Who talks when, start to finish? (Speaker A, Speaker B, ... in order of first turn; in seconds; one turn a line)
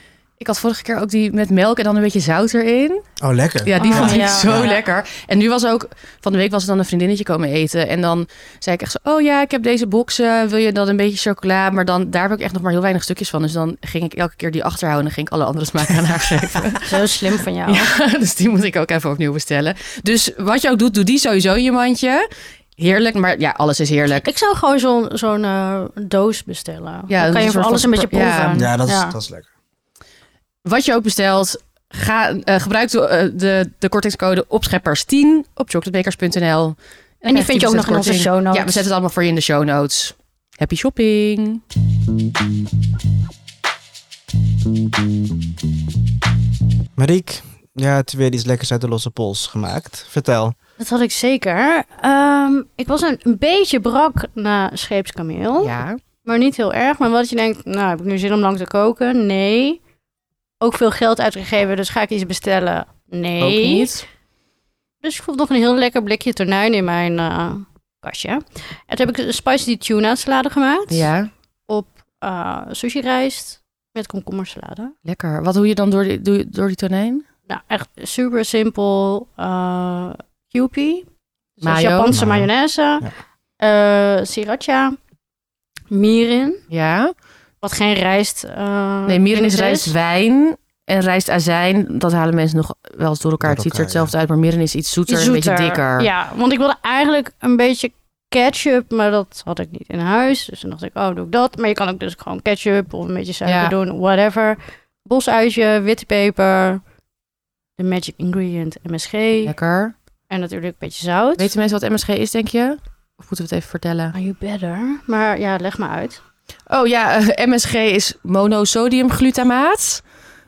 Speaker A: 0.4-3.1
Speaker B: 3.2-4.7
Speaker A: 3.6-16.9
Speaker C: 3.8-4.8
Speaker C: 16.9-17.9
Speaker A: 17.6-24.3
Speaker C: 24.2-29.2
Speaker A: 27.1-28.6
Speaker B: 28.5-29.5
Speaker A: 30.6-41.6
Speaker C: 37.3-38.8
Speaker B: 47.0-50.6
Speaker C: 50.8-59.8
Speaker A: 55.6-56.0
Speaker C: 60.6-63.9
Speaker A: 63.4-64.0
Speaker C: 65.0-71.1
Speaker A: 70.9-71.3
Speaker C: 71.7-74.9
Speaker A: 75.0-77.2
Speaker C: 77.5-81.1
Speaker C: 81.6-83.1
Speaker A: 81.6-82.1
Speaker B: 82.1-82.5
Speaker C: 83.6-85.0
Speaker C: 85.9-86.6
Speaker A: 86.7-87.1
Speaker C: 87.6-89.9
Speaker A: 89.1-96.1
Speaker B: 93.4-94.1
Speaker C: 95.1-106.8
Speaker A: 103.5-103.7
Speaker C: 107.8-109.5
Speaker A: 109.5-109.9
Speaker C: 110.3-111.5
Speaker A: 111.4-114.2
Speaker C: 114.1-116.2
Speaker A: 116.7-120.0